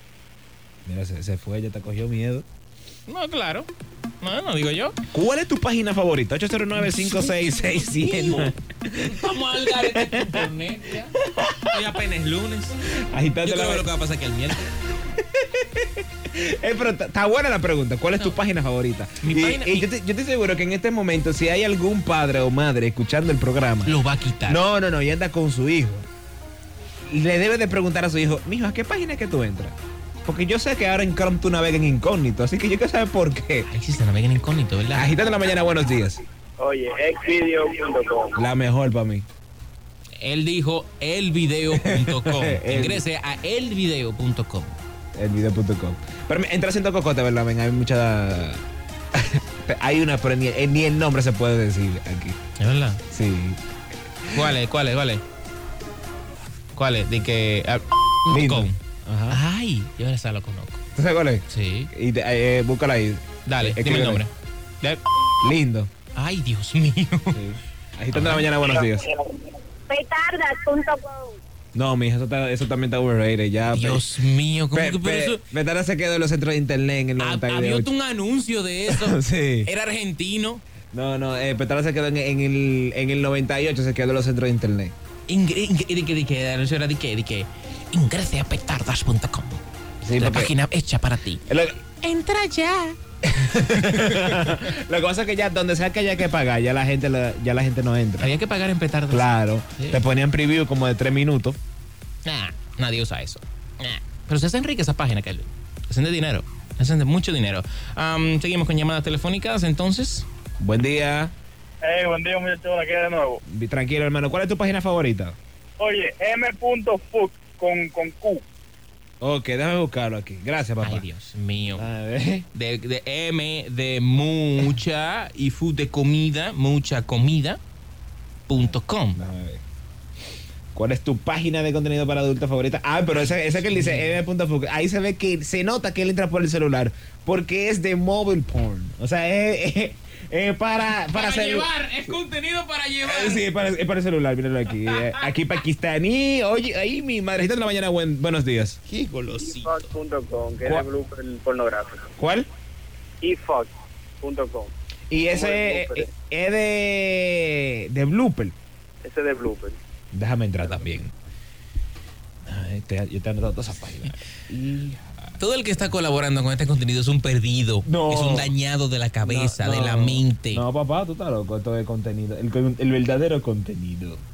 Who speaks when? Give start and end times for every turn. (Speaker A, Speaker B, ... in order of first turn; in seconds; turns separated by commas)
Speaker A: 0.8-2.4, Speaker B: 3.1-3.7, Speaker B: 4.2-5.0, Speaker A: 5.1-10.5, Speaker B: 6.7-12.8, Speaker A: 11.2-11.8, Speaker A: 13.1-13.9, Speaker B: 13.4-14.7, Speaker A: 15.0-23.9, Speaker B: 19.2-19.9, Speaker B: 23.8-24.6, Speaker A: 24.4-26.1, Speaker A: 27.1-33.7, Speaker B: 33.7-35.1, Speaker A: 34.9-36.2, Speaker C: 36.6-38.4, Speaker A: 38.4-39.2, Speaker B: 40.2-44.8, Speaker A: 41.7-43.0, Speaker A: 45.1-48.6, Speaker A: 49.1-52.4, Speaker B: 52.6-53.0, Speaker A: 53.1-53.6, Speaker B: 54.3-55.2, Speaker B: 56.7-58.8, Speaker A: 58.3-59.4, Speaker B: 59.3-60.8, Speaker A: 61.0-64.2, Speaker B: 61.5-61.9, Speaker B: 63.5-65.0, Speaker A: 65.4-65.9, Speaker B: 66.1-67.4, Speaker A: 67.3-69.1, Speaker B: 68.1-68.5, Speaker D: 68.8-71.4, Speaker A: 71.7-74.1, Speaker B: 73.7-75.4, Speaker A: 74.7-77.9, Speaker B: 77.2-80.6, Speaker A: 78.9-79.7, Speaker A: 80.9-84.9, Speaker B: 85.3-89.6, Speaker A: 90.0-90.5, Speaker B: 90.2-91.4, Speaker A: 91.5-91.8, Speaker B: 92.0-94.6, Speaker A: 93.4-98.3, Speaker B: 98.2-100.0, Speaker A: 99.1-101.6, Speaker B: 102.2-110.3, Speaker A: 110.6-111.3, Speaker E: 111.8-113.4, Speaker A: 113.5-115.4, Speaker E: 115.8-118.4, Speaker A: 119.2-121.0, Speaker B: 120.8-121.8, Speaker A: 121.7-122.5, Speaker B: 122.5-127.6, Speaker B: 128.5-129.2, Speaker A: 128.5-129.6, Speaker A: 130.7-142.2, Speaker B: 133.7-134.2, Speaker B: 140.8-143.4, Speaker A: 143.0-148.8, Speaker B: 144.7-145.3, Speaker B: 148.9-149.9, Speaker C: 149.4-152.1, Speaker A: 150.6-150.9, Speaker A: 152.2-152.5, Speaker C: 153.2-154.7, Speaker A: 155.1-158.5, Speaker C: 155.3-156.1, Speaker C: 159.0-159.8, Speaker A: 160.1-161.1, Speaker A: 162.5-165.1, Speaker B: 165.4-170.6, Speaker A: 167.8-168.5, Speaker A: 169.2-174.2